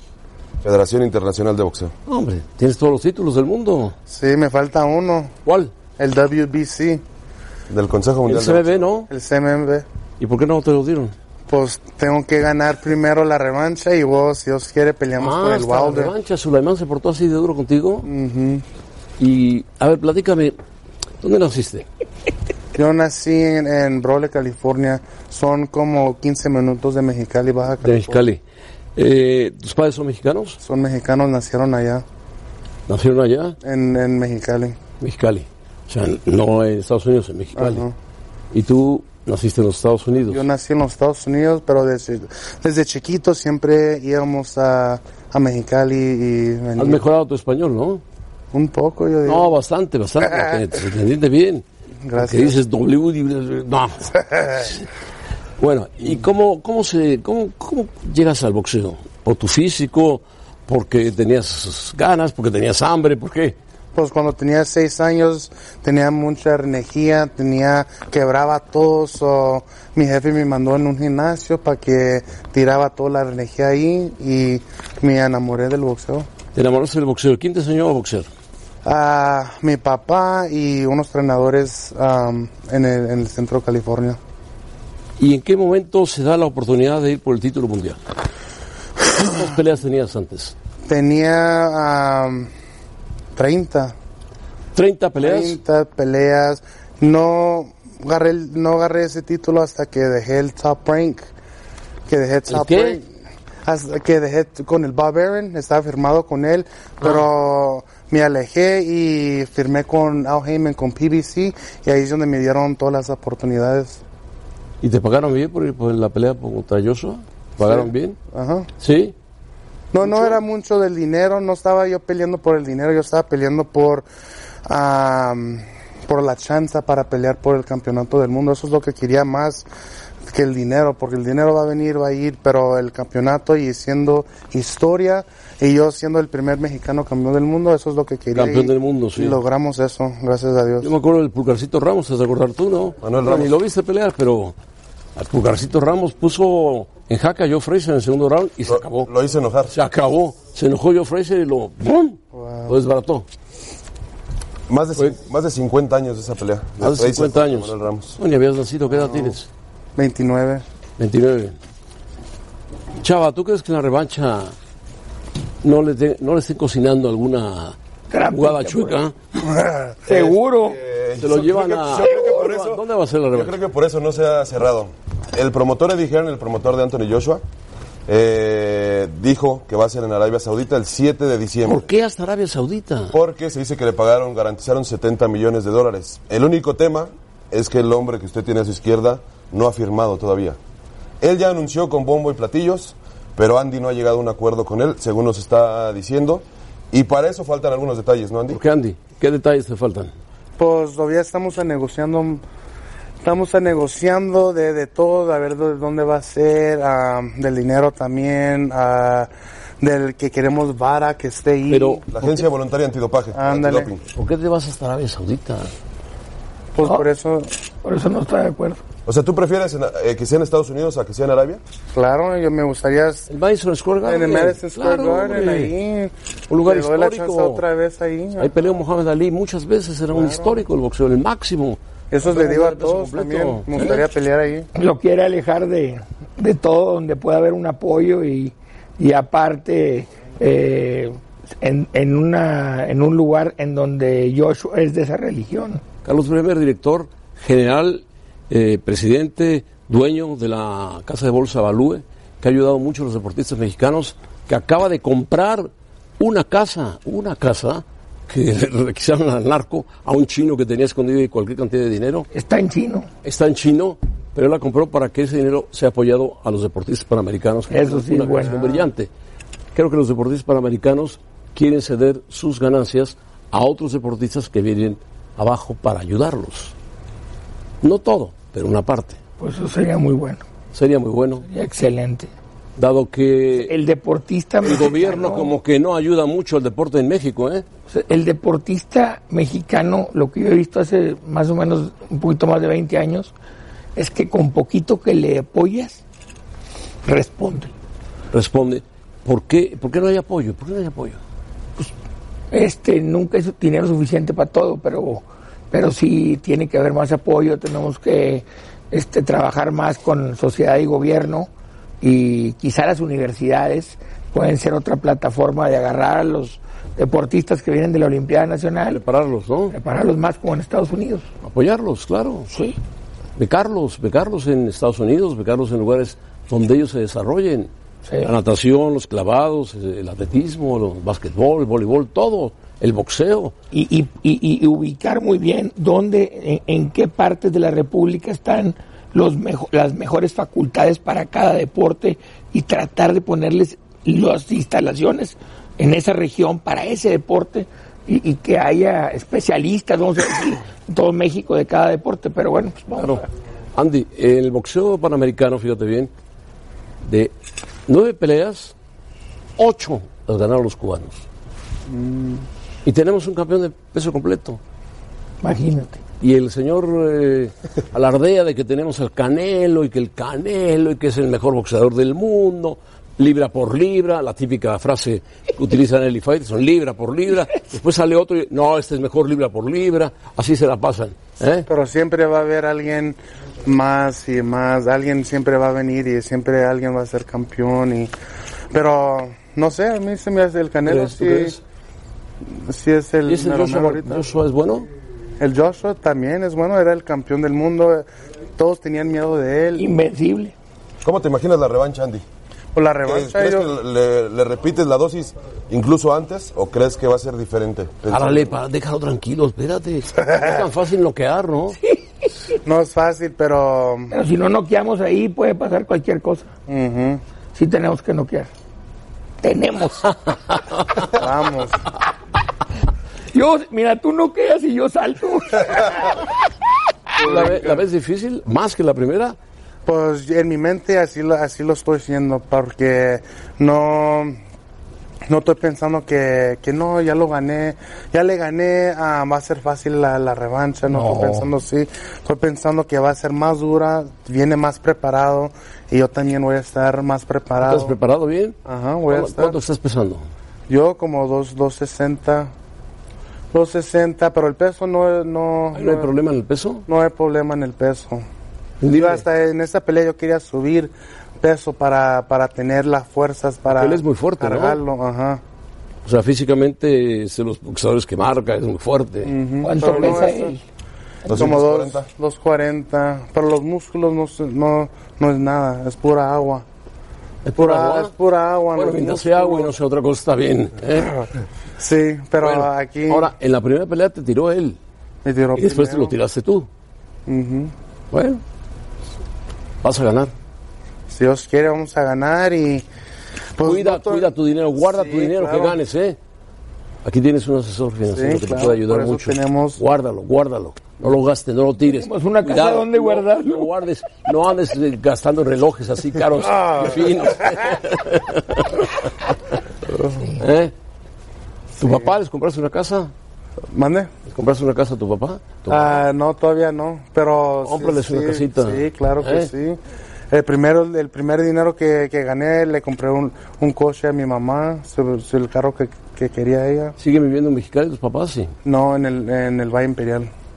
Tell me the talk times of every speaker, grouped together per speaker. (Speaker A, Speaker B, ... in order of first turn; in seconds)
Speaker A: 0.6-1.9, 7.7-8.8, 143.0-143.5, 148.7-149.7, 154.7-158.2, 170.1-177.4, 178.1-181.8, 183.1-190.6, 191.2-198.6, 212.1-214.0, 219.1-221.6, 401.0-402.2, 403.1-408.5, 471.2-472.1
Speaker B: 2.1-3.9, 5.5-5.7, 8.3-9.1, 10.2-11.1, 15.2-18.1, 19.2-20.6, 21.2-21.9, 27.8-28.4, 28.9-30.6, 32.9-33.5, 35.0-37.8, 38.5-40.5, 46.8-48.0, 49.2-51.6, 52.1-54.8, 55.6-63.5, 76.5-78.3, 85.2-88.0, 89.2-90.5, 94.7-95.6, 102.5-103.0, 114.8-118.2, 118.8-119.1, 120.0-120.4, 138.3-139.4, 140.8-144.5, 145.2-149.1, 149.7-153.2, 156.8-159.5, 161.0-161.6, 163.0-164.5, 165.6-167.8, 168.3-169.1, 171.2-173.6, 181.6-183.1, 198.5-200.1, 211.7-212.0, 214.1-215.7, 223.3-225.7, 226.5-227.6, 228.4-234.1, 246.0-262.3, 263.2-269.1, 269.7-276.7, 277.8-279.2, 280.7-281.4, 282.8-283.7, 284.6-287.6, 298.3-301.2, 318.9-319.8, 321.4-322.5, 323.4-327.7, 328.2-333.5, 353.0-353.2, 353.7-356.1, 357.0-357.3, 357.9-358.7, 359.6-361.2, 362.8-364.6, 366.2-381.7, 390.9-391.6, 393.2-394.9, 408.1-411.8, 427.2-429.4, 447.6-448.6, 449.1-450.2, 455.7-456.8, 458.8-459.2, 463.7-464.8, 466.0-469.3, 477.4-478.1, 478.7-481.1, 482.4-484.8, 485.6-486.7, 488.1-488.4, 489.8-490.3, 493.6-496.2, 497.0-508.9, 510.4-510.7, 511.8-513.1, 514.3-516.0, 517.6-519.5, 527.0-528.5
Speaker C: 4.1-5.3, 6.0-7.0, 9.1-9.8, 11.5-16.1, 18.0-18.6, 22.7-28.3, 30.6-32.0, 33.6-34.8, 37.5-37.9, 40.3-47.0, 48.5-49.5, 50.2-50.6, 52.1-52.6, 63.9-76.3, 78.8-84.2, 90.8-92.5, 93.3-93.9, 95.2-101.2, 102.1-103.0, 103.6-114.0, 117.6-118.7, 119.9-124.0, 124.7-129.7, 130.3-140.9, 152.3-152.8, 158.9-159.3, 159.9-160.6, 169.6-169.9, 200.6-202.4, 203.2-209.3, 209.8-212.3, 213.3-213.9, 216.7-217.5, 221.9-223.2, 224.0-228.6, 230.1-230.6, 232.1-234.7, 362.0-362.3, 381.7-388.1, 388.7-391.6, 392.5-394.3, 395.4-398.0, 398.6-399.8, 402.7-403.7, 410.1-410.6, 412.6-414.1, 416.7-417.2, 421.1-421.8, 427.2-427.8, 429.9-434.4, 435.3-448.0, 448.6-449.6, 450.7-452.5, 453.5-456.1, 456.9-458.2, 458.8-465.4, 469.2-470.6, 471.3-476.6, 477.5-479.8, 481.8-483.3, 485.2-486.2, 487.3-487.7, 491.1-492.8, 493.6-495.8, 498.1-499.8, 506.4-507.7, 509.9-510.3, 511.8-512.1, 513.7-514.1, 515.7-519.8, 520.3-526.9, 528.6-530.3
Speaker D: 168.1-169.0, 170.1-170.8, 217.8-218.8, 234.8-245.8, 262.3-263.1, 267.7-268.8, 279.4-280.4, 281.5-282.3, 283.6-285.5, 287.9-293.3, 293.9-296.0, 297.0-297.7, 302.5-311.5, 312.0-319.0, 319.7-321.2, 322.5-322.8, 333.7-353.2, 365.4-366.0, 399.8-400.5, 414.1-416.5, 417.5-418.5, 419.4-420.1, 423.3-426.1, 440.9-441.5, 469.6-470.6, 501.9-503.7